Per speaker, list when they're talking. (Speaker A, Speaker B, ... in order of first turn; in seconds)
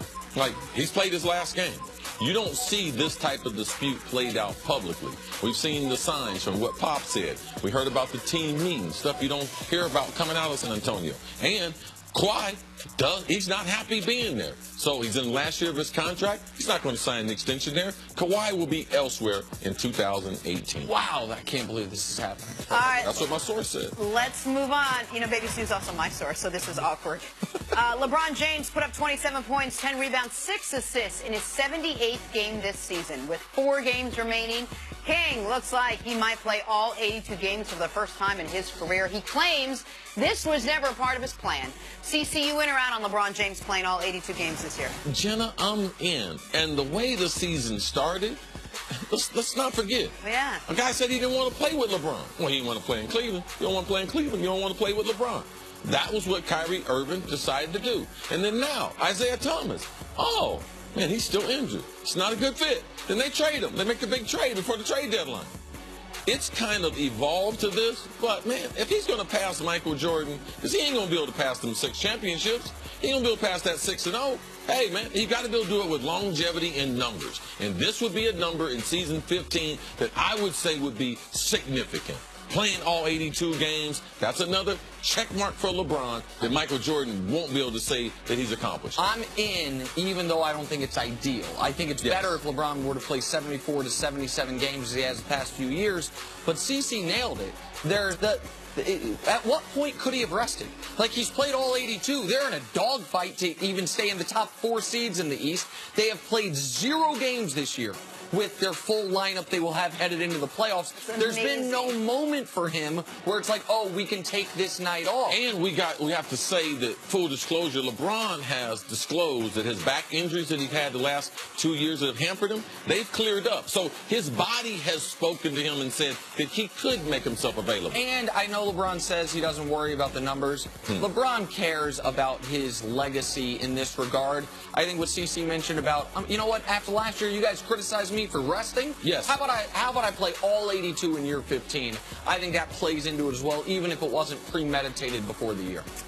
Speaker A: 0.3-20.9, 23.0-23.9, 45.0-48.4, 49.1-65.5, 66.2-89.0, 92.0-92.4, 115.3-128.0, 139.0-139.4
Speaker B: 20.8-23.4, 89.0-115.4, 127.9-145.8
Speaker C: 22.7-23.2, 23.9-45.0, 50.2-50.6, 111.0-112.0